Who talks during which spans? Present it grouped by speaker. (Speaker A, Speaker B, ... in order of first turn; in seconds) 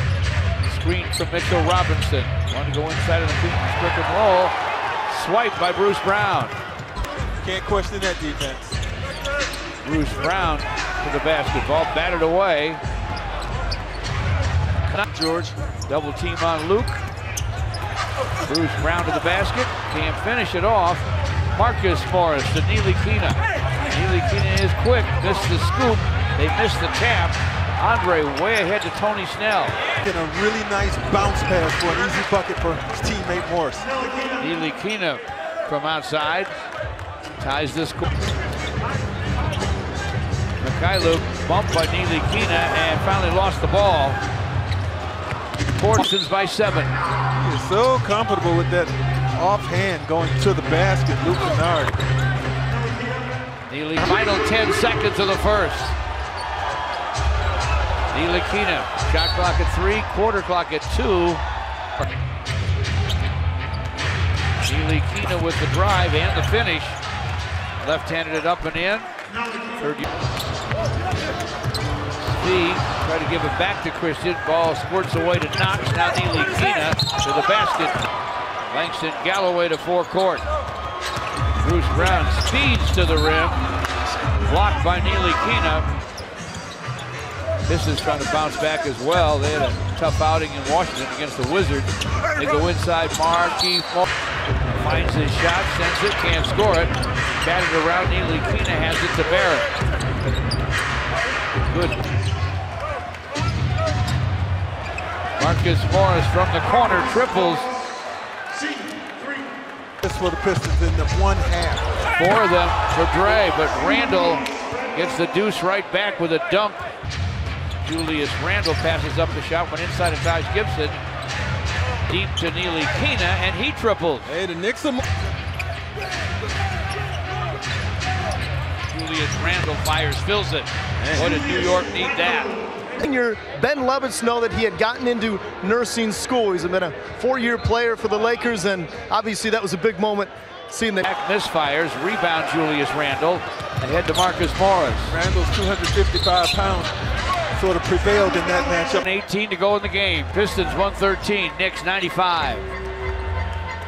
Speaker A: 0.6-4.5, 5.1-6.5, 9.8-12.8, 15.9-17.0, 18.4-29.8, 34.4-36.6, 37.4-38.1, 40.6-44.2, 45.7-46.9, 53.7-55.9, 58.1-61.4, 64.6-67.0, 67.8-69.1, 69.8-70.0, 72.2-78.0, 78.7-80.4, 81.6-83.6, 84.4-85.9, 87.7-94.1, 94.7-99.7, 101.7-102.0, 105.4-107.7, 112.1-116.9, 117.8-121.0, 122.1-124.3, 128.9-132.5, 141.0-145.2, 149.0-152.7
Speaker B: 7.4-8.8, 30.0-33.9, 47.4-52.0, 110.0-111.9, 124.3-125.0, 131.0-131.3, 145.1-146.9, 147.5-149.0
Speaker C: 15.1-15.5, 133.0-141.0